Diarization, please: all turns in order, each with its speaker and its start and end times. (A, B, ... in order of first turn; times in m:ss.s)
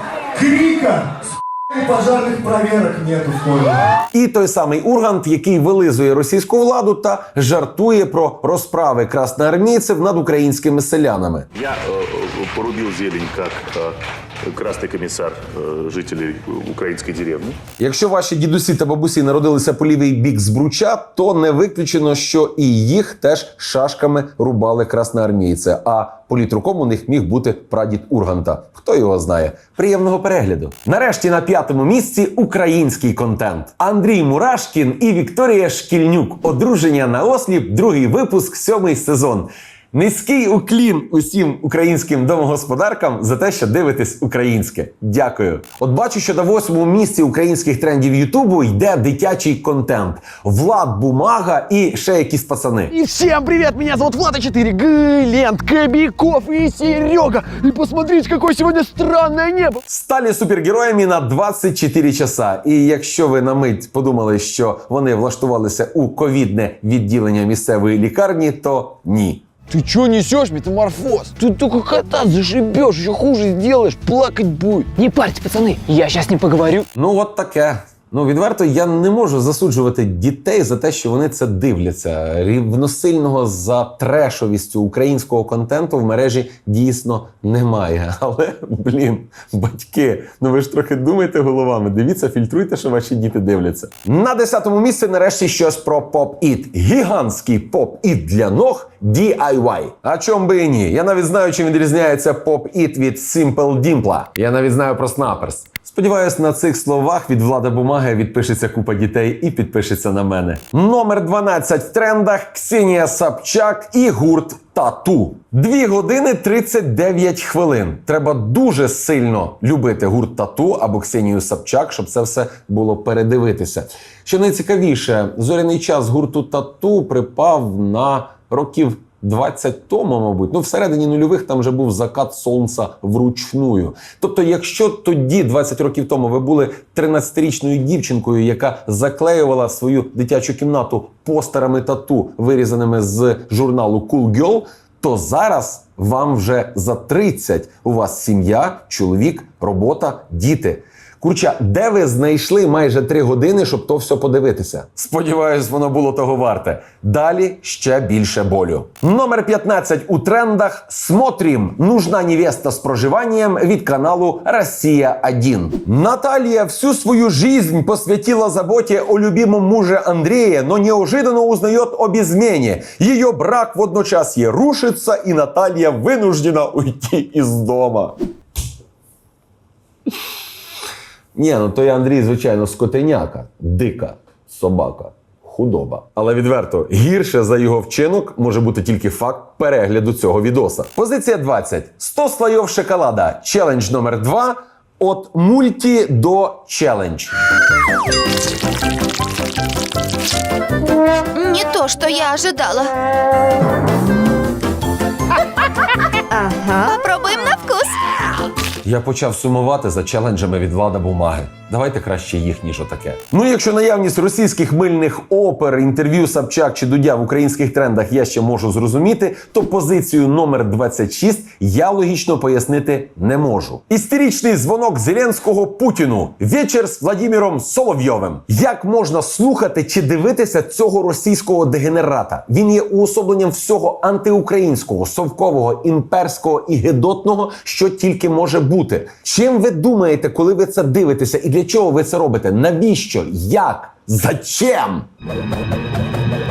0:00.3-0:03.9 A
0:04.1-0:11.5 B
0:11.6-0:17.6 C
0:17.8-0:53.0 B
0:53.0-0:59.8 D
0:59.8-1:09.6 B
1:09.7-1:16.8 D
1:16.9-2:58.2 B
3:01.4-3:17.3 B
3:21.3-3:22.9 E
3:26.3-3:28.0 E
3:28.8-4:05.1 B